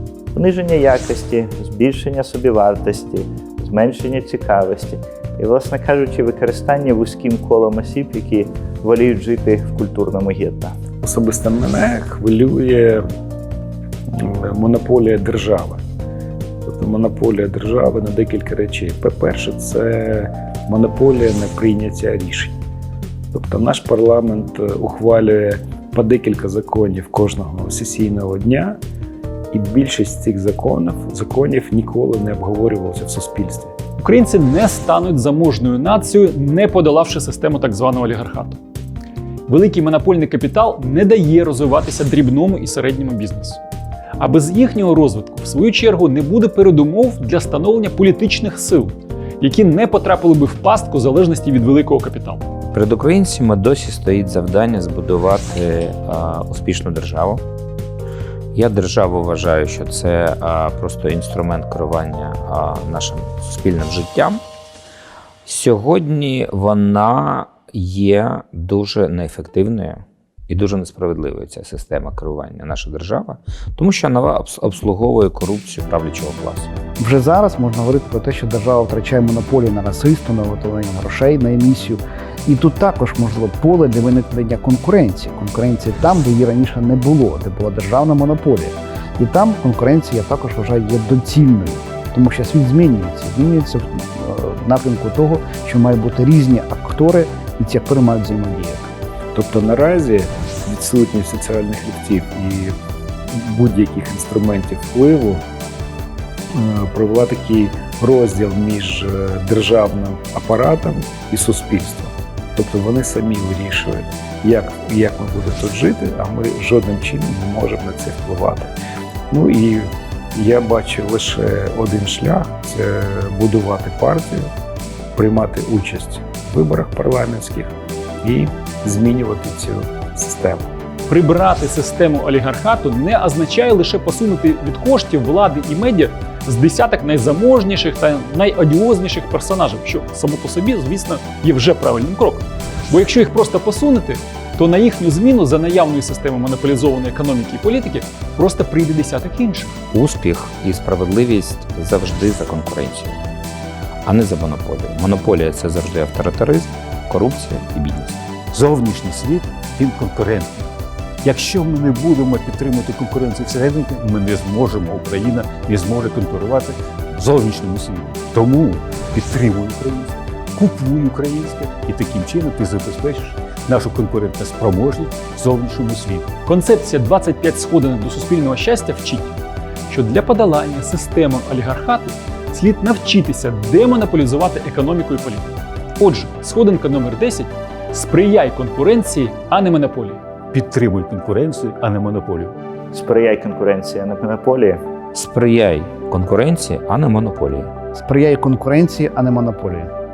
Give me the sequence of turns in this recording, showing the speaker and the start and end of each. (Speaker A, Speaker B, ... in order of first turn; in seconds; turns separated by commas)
Speaker A: 0.3-10.8, Speaker B: 11.0-13.1, Speaker B: 14.1-15.8, Speaker B: 16.6-22.6, Speaker B: 23.3-28.8, Speaker B: 29.5-33.7, Speaker C: 34.0-38.6, Speaker C: 39.5-43.6, Speaker C: 44.2-52.4, Speaker D: 52.7-57.4, Speaker D: 58.5-64.4, Speaker D: 65.5-76.8, Speaker E: 77.0-98.9, Speaker B: 99.3-102.8, Speaker B: 103.3-105.4, Speaker B: 106.5-118.7, Speaker B: 119.3-124.5, Speaker B: 125.2-127.7, Speaker B: 128.2-130.7, Speaker C: 131.1-149.8, Speaker D: 149.9-153.2, Speaker D: 154.1-158.2, Speaker F: 158.5-160.7, Speaker F: 161.2-176.3, Speaker C: 176.4-179.4, Speaker C: 179.9-190.2, Speaker F: 190.5-192.6, Speaker A: 192.9-194.8, Speaker D: 195.1-197.7, Speaker E: 197.9-199.9